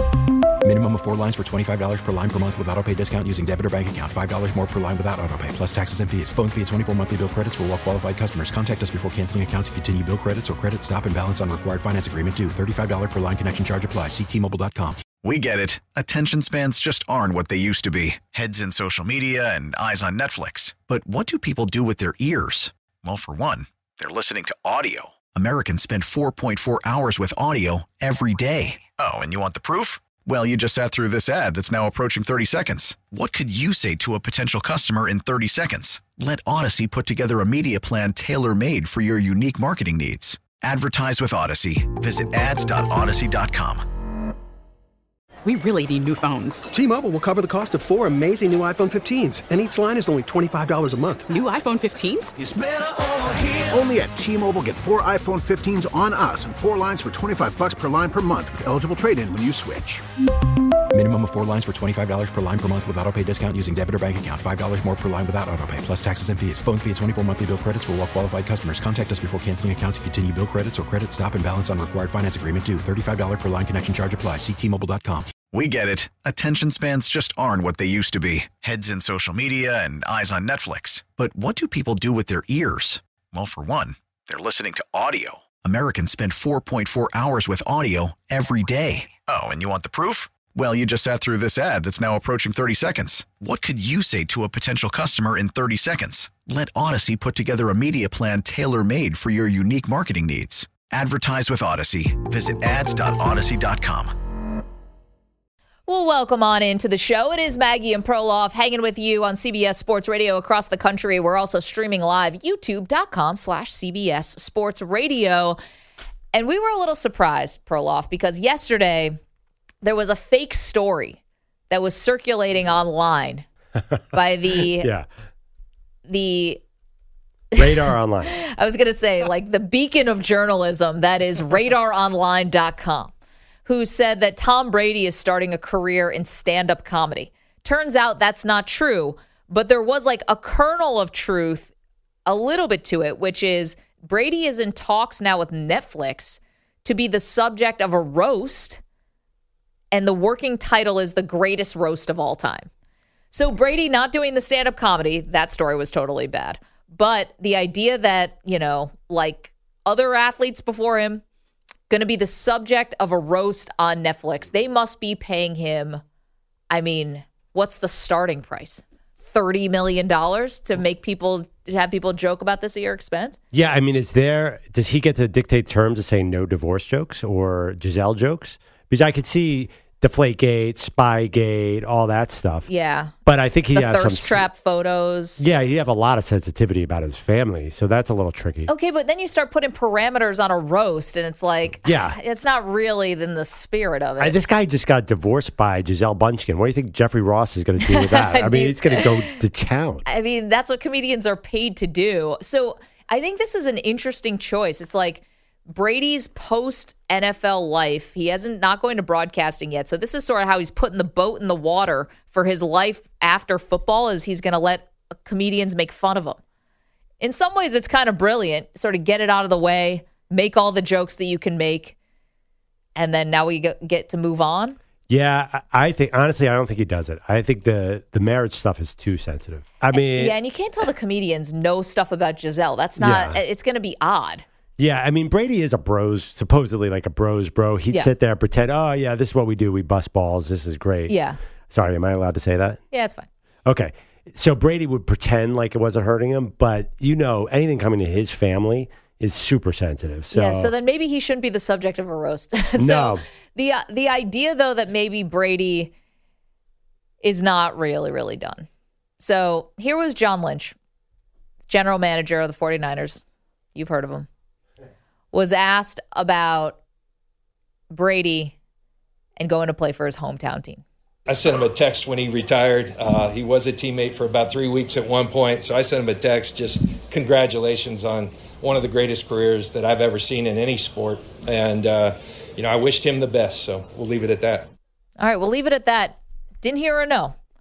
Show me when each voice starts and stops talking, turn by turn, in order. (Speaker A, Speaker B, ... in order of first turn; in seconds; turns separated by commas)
Speaker A: 0.6-15.0, Speaker B: 15.2-43.8, Speaker C: 45.4-46.7, Speaker D: 46.7-51.3, Speaker C: 51.3-52.4, Speaker E: 52.4-60.0, Speaker A: 60.9-75.3, Speaker B: 75.5-104.1, Speaker F: 105.9-115.6, Speaker F: 116.3-119.2, Speaker F: 119.8-121.2, Speaker F: 121.7-123.5, Speaker G: 123.9-125.1, Speaker F: 124.1-124.9, Speaker F: 126.0-126.6, Speaker F: 127.5-133.1, Speaker G: 127.6-128.3, Speaker F: 133.6-141.7, Speaker F: 142.2-148.8, Speaker F: 149.9-152.7, Speaker F: 153.3-161.2, Speaker F: 161.9-166.0, Speaker F: 166.7-173.4, Speaker G: 173.5-182.7, Speaker F: 182.7-183.1, Speaker G: 183.2-184.4, Speaker F: 183.7-185.5, Speaker G: 185.4-188.7, Speaker F: 188.7-194.3, Speaker G: 191.8-192.2, Speaker G: 194.2-200.1, Speaker F: 197.8-199.3, Speaker F: 200.1-216.4, Speaker F: 217.2-221.9, Speaker F: 222.9-224.8, Speaker G: 225.1-230.3, Speaker F: 229.9-234.4, Speaker G: 233.0-233.4, Speaker G: 234.8-241.1, Speaker F: 241.1-241.4, Speaker G: 241.7-242.8, Speaker F: 242.9-243.3, Speaker G: 243.6-250.7, Speaker F: 250.3-255.9, Speaker G: 252.8-253.2, Speaker F: 257.2-258.7, Speaker F: 259.2-260.7, Speaker F: 261.7-263.2, Speaker F: 263.7-264.3, Speaker F: 265.3-266.8, Speaker F: 267.9-268.6, Speaker F: 269.4-270.8, Speaker H: 271.3-284.7, Speaker F: 285.2-287.4